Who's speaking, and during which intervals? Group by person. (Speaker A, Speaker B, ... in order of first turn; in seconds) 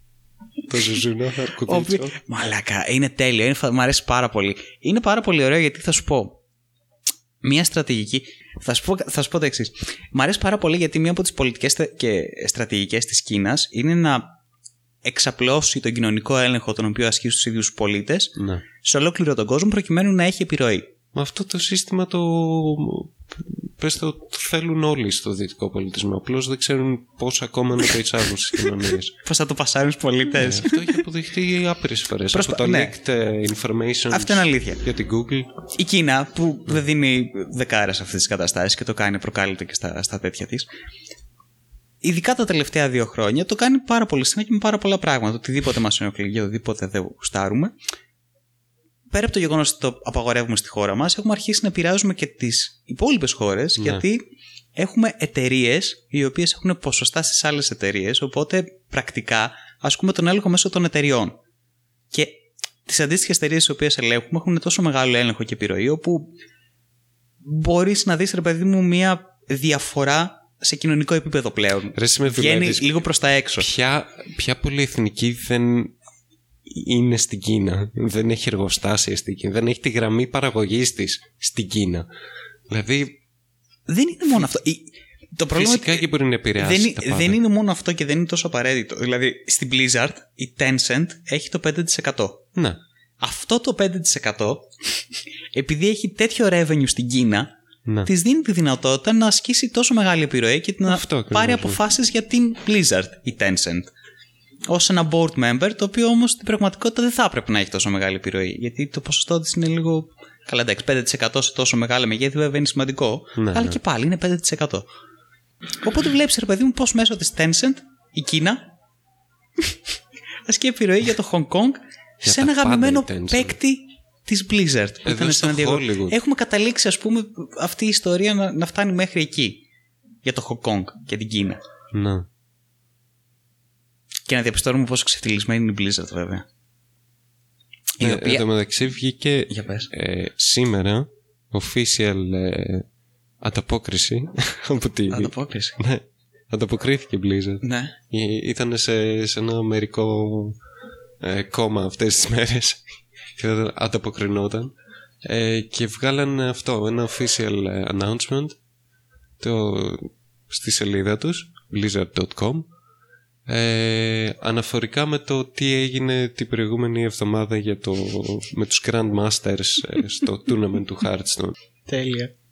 Speaker A: 0.7-2.1, 18.4-18.6, 21.1-29.2, 30.4-35.5, 53.8-54.0, 71.9-73.0, 73.6-75.9, 76.7-82.1, 82.7-83.2, 85.5-87.4, 100.9-101.8, 113.3-113.8, 122.2-123.5, 125.0-126.2, 131.9-132.3, 138.0-142.8, 143.4-150.6, 151.2-154.7, 155.2-158.6, 159.4-162.7, 163.5-171.5
Speaker B: 1.6-6.4, 7.4-14.4, 15.0-20.9, 29.2-31.0, 32.3-32.9, 34.1-34.8, 35.7-40.7, 42.0-47.7, 49.1-54.2, 54.8-61.4, 62.1-66.3, 67.4-73.7, 83.9-92.4, 93.2-97.5, 98.0-103.9, 104.7-114.8, 115.8-118.7, 120.5-129.6, 130.2-131.6, 134.3-136.4, 138.0-138.4, 139.5-139.9, 145.1-145.8, 147.6-147.9, 171.9-172.3